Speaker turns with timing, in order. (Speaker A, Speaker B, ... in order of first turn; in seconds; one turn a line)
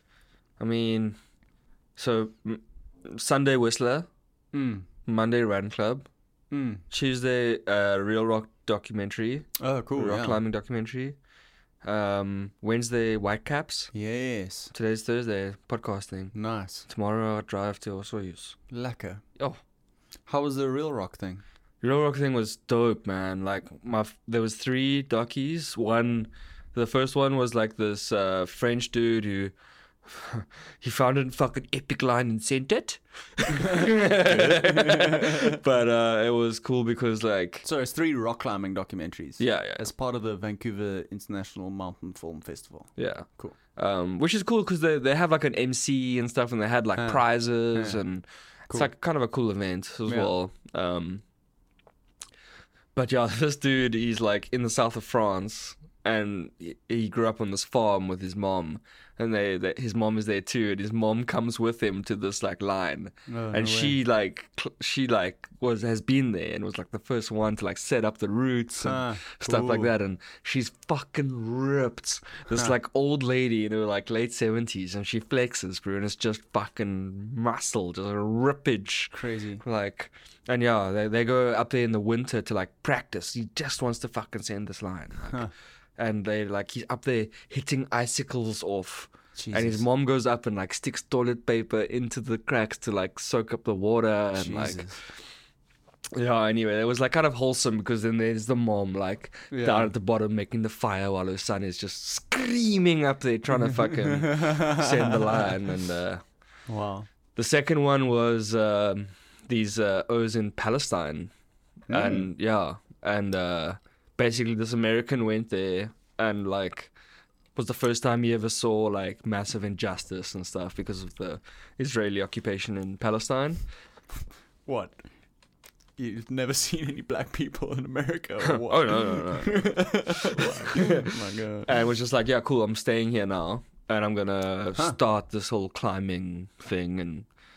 Speaker A: 0.6-1.2
Speaker A: 2.0-4.1
Speaker B: 4.5-4.9
Speaker A: 5.1-6.1
Speaker B: 6.5-6.8
Speaker A: 6.9-11.2
Speaker B: 9.6-10.4
Speaker A: 11.8-13.9
Speaker B: 13.9-14.7
Speaker A: 14.7-16.3
Speaker B: 16.3-16.9
Speaker A: 16.9-18.6
Speaker B: 18.7-19.2
Speaker B: 20.3-21.4
Speaker A: 21.8-29.5
Speaker A: 30.1-37.7
Speaker B: 33.6-35.6
Speaker B: 37.6-43.6
Speaker A: 39.4-39.9
Speaker A: 43.0-51.2
Speaker B: 47.0-48.0
Speaker B: 50.1-50.3
Speaker A: 53.0-94.9
Speaker B: 63.3-64.0
Speaker B: 68.8-69.9
Speaker B: 79.1-79.6
Speaker B: 85.3-85.5
Speaker B: 89.4-89.8
Speaker B: 94.3-95.0
Speaker A: 96.2-106.2
Speaker B: 99.5-99.9
Speaker B: 103.8-105.5
Speaker B: 106.7-107.1
Speaker A: 107.3-111.3
Speaker B: 111.9-112.3
Speaker A: 111.9-116.9
Speaker A: 117.5-123.6
Speaker B: 124.7-125.0
Speaker B: 126.0-131.7
Speaker A: 128.4-131.1
Speaker A: 131.7-137.3